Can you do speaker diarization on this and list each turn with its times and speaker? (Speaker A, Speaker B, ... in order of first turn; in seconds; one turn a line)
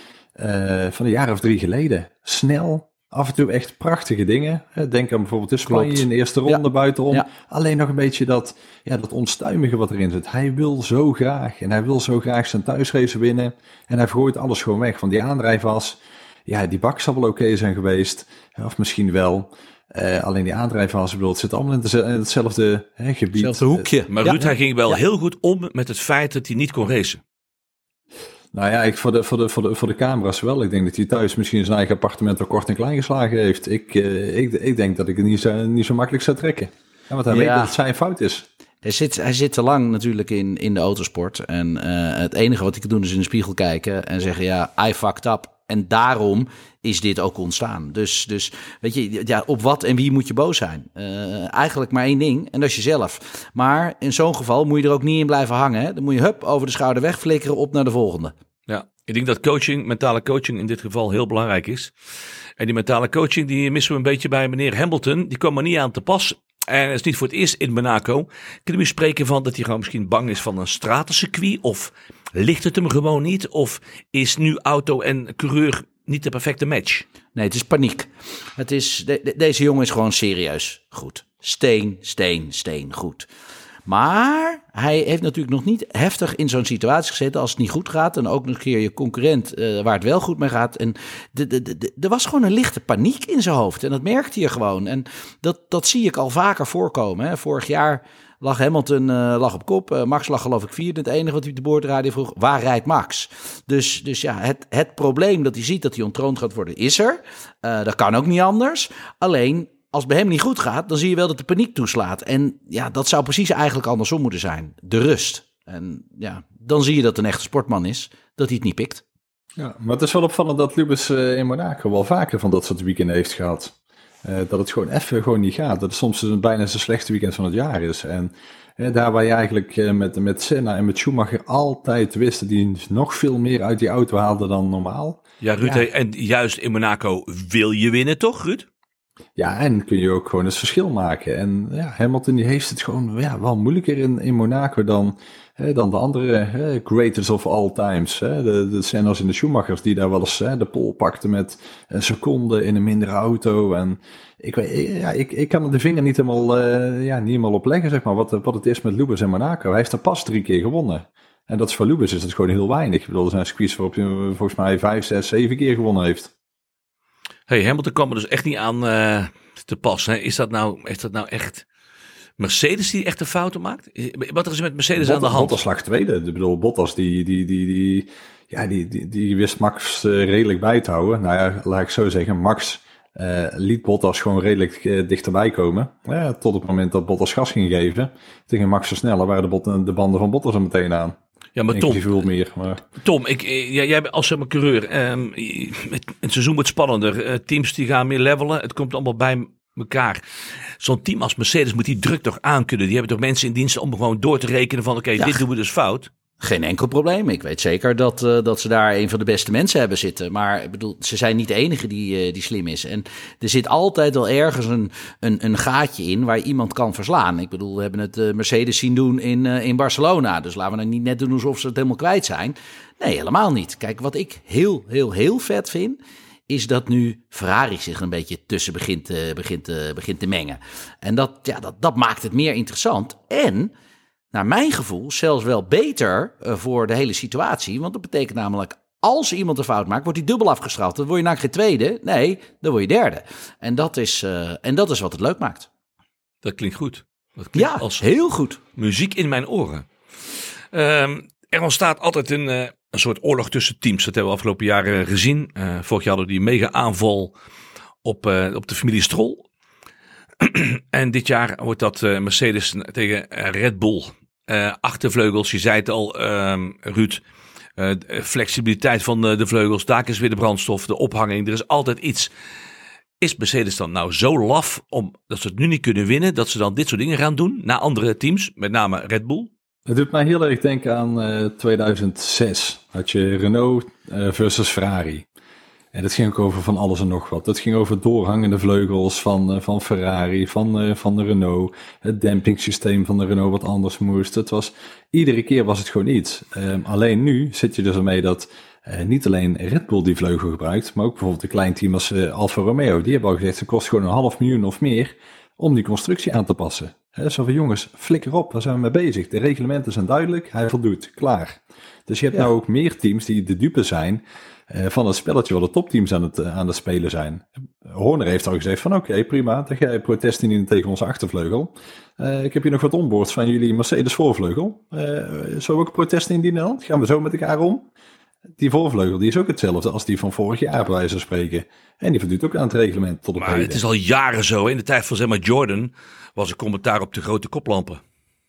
Speaker A: 0.4-23.9
Speaker B: 5.7-7.3
Speaker B: 23.3-25.0
Speaker C: 24.1-27.2
Speaker A: 28.5-38.5
Speaker B: 37.3-37.7
Speaker B: 38.8-58.3
Speaker C: 58.7-61.9
Speaker C: 62.6-77.0
Speaker B: 77.3-83.3
Speaker B: 83.8-119.0
Speaker A: 119.6-135.9
Speaker C: 135.4-138.7
Speaker A: 139.4-166.3
Speaker C: 167.5-171.6
Speaker C: 172.4-175.6
Speaker A: 175.0-191.2
Speaker C: 191.6-192.0
Speaker A: 191.7-192.8
Speaker C: 193.0-200.2
Speaker C: 200.8-206.1
Speaker B: 206.4-233.7
Speaker B: 234.3-245.7
Speaker C: 246.4-248.1
Speaker B: 247.5-248.6
Speaker C: 248.8-249.9
Speaker C: 250.7-257.3
Speaker C: 258.0-259.4
Speaker C: 260.4-267.2
Speaker C: 267.8-272.3
Speaker C: 273.2-279.5
Speaker A: 279.9-285.2
Speaker A: 285.9-327.9
Speaker A: 328.6-333.8
Speaker C: 333.4-338.0